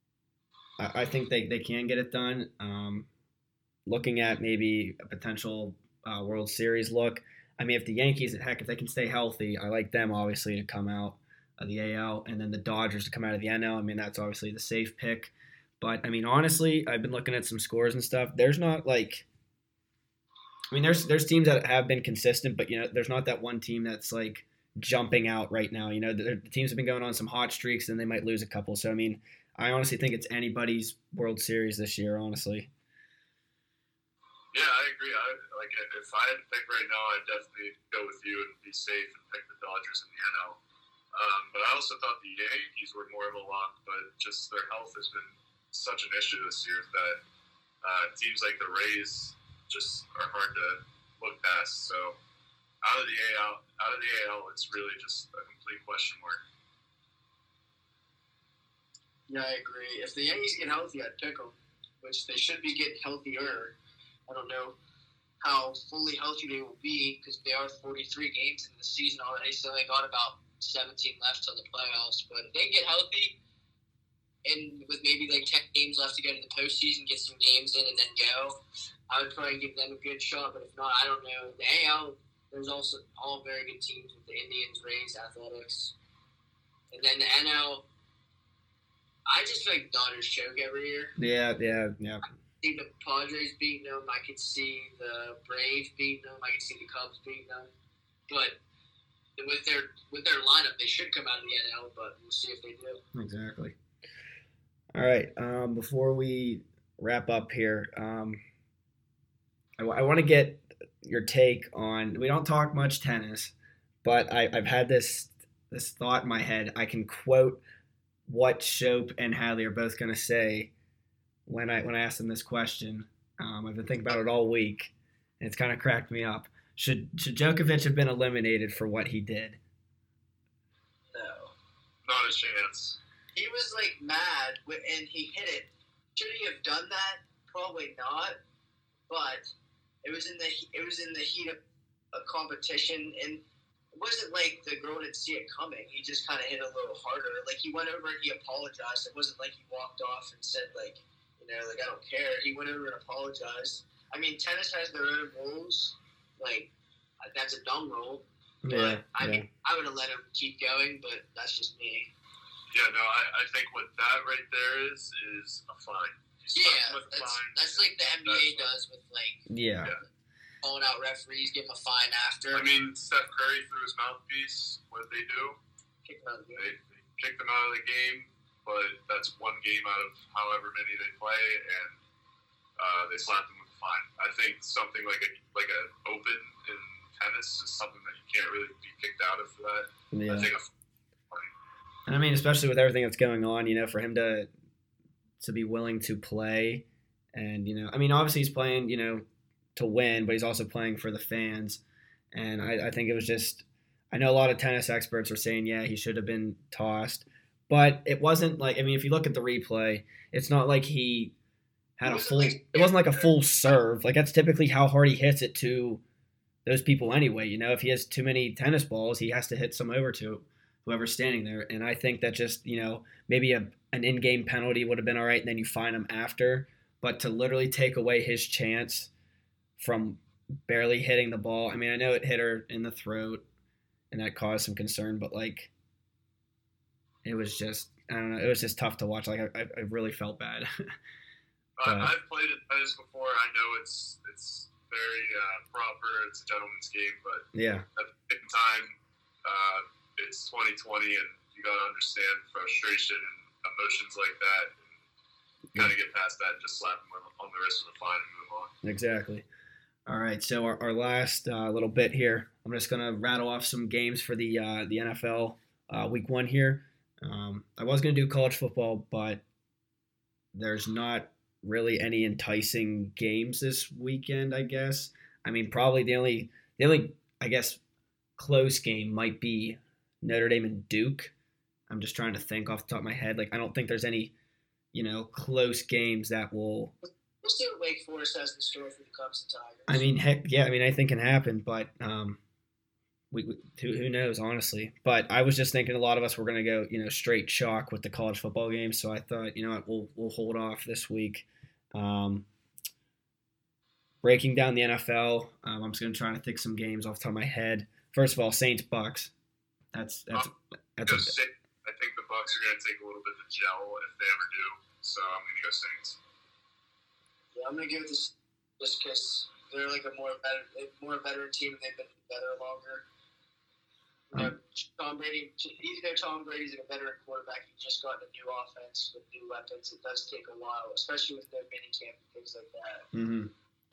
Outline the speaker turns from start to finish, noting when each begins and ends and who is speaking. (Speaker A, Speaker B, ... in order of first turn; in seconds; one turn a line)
Speaker A: 0.8-3.1
Speaker A: 3.9-19.3
Speaker A: 20.7-32.7
Speaker B: 34.5-40.6
Speaker B: 41.1-47.2
Speaker B: 47.8-52.1
Speaker B: 52.8-56.4
Speaker C: 59.3-63.7
Speaker C: 64.3-64.8
Speaker C: 65.4-73.4
Speaker C: 74.4-78.6
Speaker C: 79.1-85.9
Speaker C: 86.9-87.8
Speaker C: 89.3-91.1
Speaker A: 91.2-92.3
Speaker C: 92.6-97.7
Speaker C: 98.3-98.6
Speaker C: 99.4-103.0
Speaker A: 103.1-103.7
Speaker A: 104.9-108.4
Speaker A: 109.8-113.5
Speaker A: 114.0-117.6
Speaker A: 118.3-120.7
Speaker A: 121.5-129.6
Speaker C: 131.1-131.5
Speaker B: 132.0-133.0
Speaker C: 133.3-138.4
Speaker C: 139.1-139.4
Speaker C: 140.0-141.6
Speaker C: 142.1-143.4
Speaker C: 143.9-156.7
Speaker C: 157.2-162.1
Speaker A: 158.6-159.4
Speaker B: 162.7-168.7
Speaker C: 166.5-169.4
Speaker A: 169.5-169.9
Speaker C: 170.6-172.7
Speaker B: 172.5-175.6
Speaker C: 176.0-176.6
Speaker B: 176.5-182.0
Speaker B: 182.8-190.7
Speaker A: 190.1-190.5
Speaker A: 192.1-194.5
Speaker A: 195.4-201.8
Speaker A: 202.3-211.3
Speaker A: 212.0-216.0
Speaker C: 212.0-213.3
Speaker A: 216.6-229.1
Speaker A: 229.8-233.4
Speaker A: 234.1-235.7
Speaker A: 237.2-240.7
Speaker B: 241.8-247.4
Speaker A: 241.8-242.1
Speaker A: 247.5-247.8
Speaker B: 247.9-254.8
Speaker B: 255.8-258.7
Speaker A: 258.8-259.4
Speaker A: 260.1-269.4
Speaker A: 270.5-277.8
Speaker A: 278.4-281.3
Speaker A: 281.9-284.3
Speaker A: 284.9-286.9
Speaker C: 287.4-290.1
Speaker A: 289.9-292.4
Speaker A: 293.3-302.5
Speaker A: 304.2-309.3
Speaker A: 309.9-311.3
Speaker B: 311.1-316.2
Speaker C: 317.5-323.0
Speaker C: 324.3-333.1
Speaker A: 333.1-333.5